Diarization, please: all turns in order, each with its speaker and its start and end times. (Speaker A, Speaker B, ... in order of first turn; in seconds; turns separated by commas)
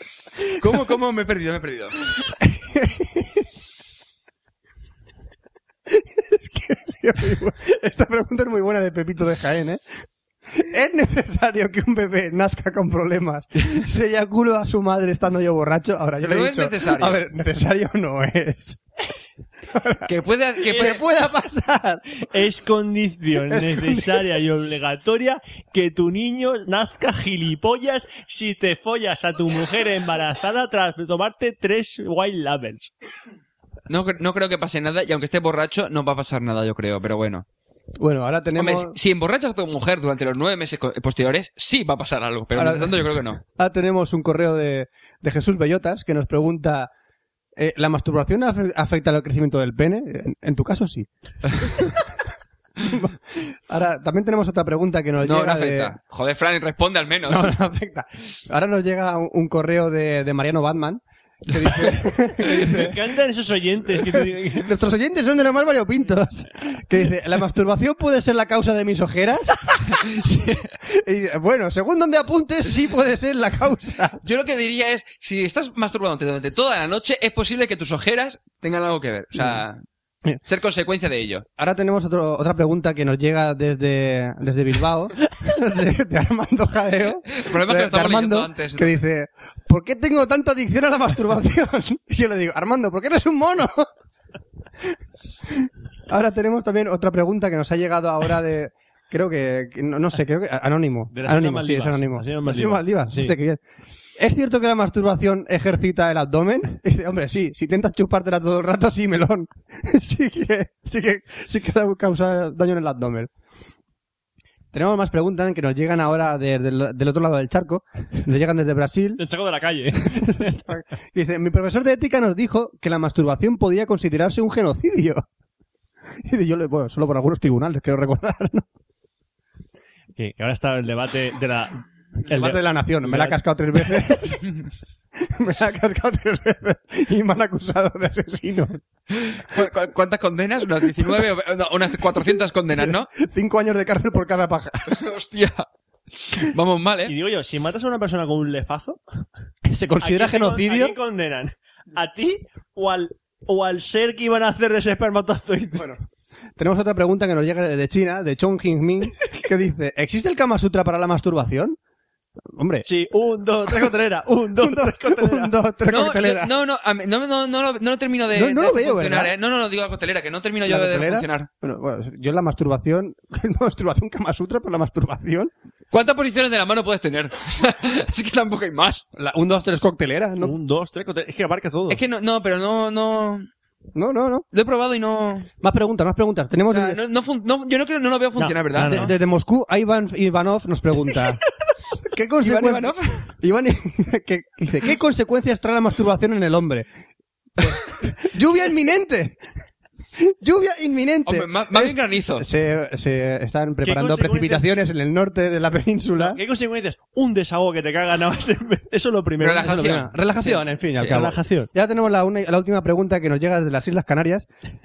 Speaker A: 0.6-2.0, Speaker B: 2.4-3.5, Speaker B: 5.9-9.8, Speaker B: 10.5-18.8, Speaker A: 16.2-17.2, Speaker B: 19.7-20.1, Speaker A: 20.1-21.0, Speaker B: 20.6-22.1, Speaker C: 20.7-20.9, Speaker C: 22.3-32.9, Speaker B: 23.5-24.3, Speaker A: 33.9-37.5, Speaker B: 38.0-39.0, Speaker A: 38.5-43.4, Speaker B: 42.5-46.9, Speaker B: 47.6-51.1, Speaker A: 51.6-51.9, Speaker B: 52.8-55.9, Speaker A: 55.2-57.5, Speaker B: 57.3-63.0, Speaker C: 62.5-64.7, Speaker B: 64.0-74.2, Speaker A: 74.2-79.8, Speaker A: 80.5-81.5, Speaker B: 81.6-93.9, Speaker A: 87.3-89.0, Speaker B: 95.5-103.6, Speaker C: 101.1-103.3, Speaker B: 104.2-113.3, Speaker B: 114.7-119.2, Speaker C: 119.2-120.6, Speaker B: 120.0-125.2, Speaker B: 126.2-128.7, Speaker C: 130.2-133.4, Speaker B: 132.2-134.6, Speaker B: 135.2-138.8, Speaker A: 139.1-143.1, Speaker B: 140.9-141.3, Speaker B: 142.2-145.0, Speaker A: 144.9-145.7, Speaker A: 146.3-147.1, Speaker C: 147.1-149.0, Speaker B: 149.6-150.9, Speaker C: 150.0-156.0, Speaker B: 156.6-161.8, Speaker B: 162.5-162.9, Speaker C: 162.8-165.6, Speaker B: 163.6-166.5, Speaker A: 165.9-171.5, Speaker B: 168.3-169.3, Speaker B: 170.7-175.5, Speaker A: 175.9-179.1, Speaker B: 179.2-180.6, Speaker C: 180.4-182.0, Speaker A: 181.9-183.5, Speaker B: 183.9-184.4, Speaker A: 184.5-185.5, Speaker B: 185.6-187.0, Speaker A: 186.7-189.1, Speaker C: 188.4-189.1, Speaker B: 188.8-191.4, Speaker B: 192.1-196.9, Speaker A: 192.4-193.3, Speaker B: 197.6-199.4, Speaker B: 200.2-206.4, Speaker A: 201.3-202.4, Speaker C: 203.8-204.7, Speaker C: 206.2-210.5, Speaker A: 209.4-210.1, Speaker B: 209.5-214.5, Speaker C: 211.1-211.7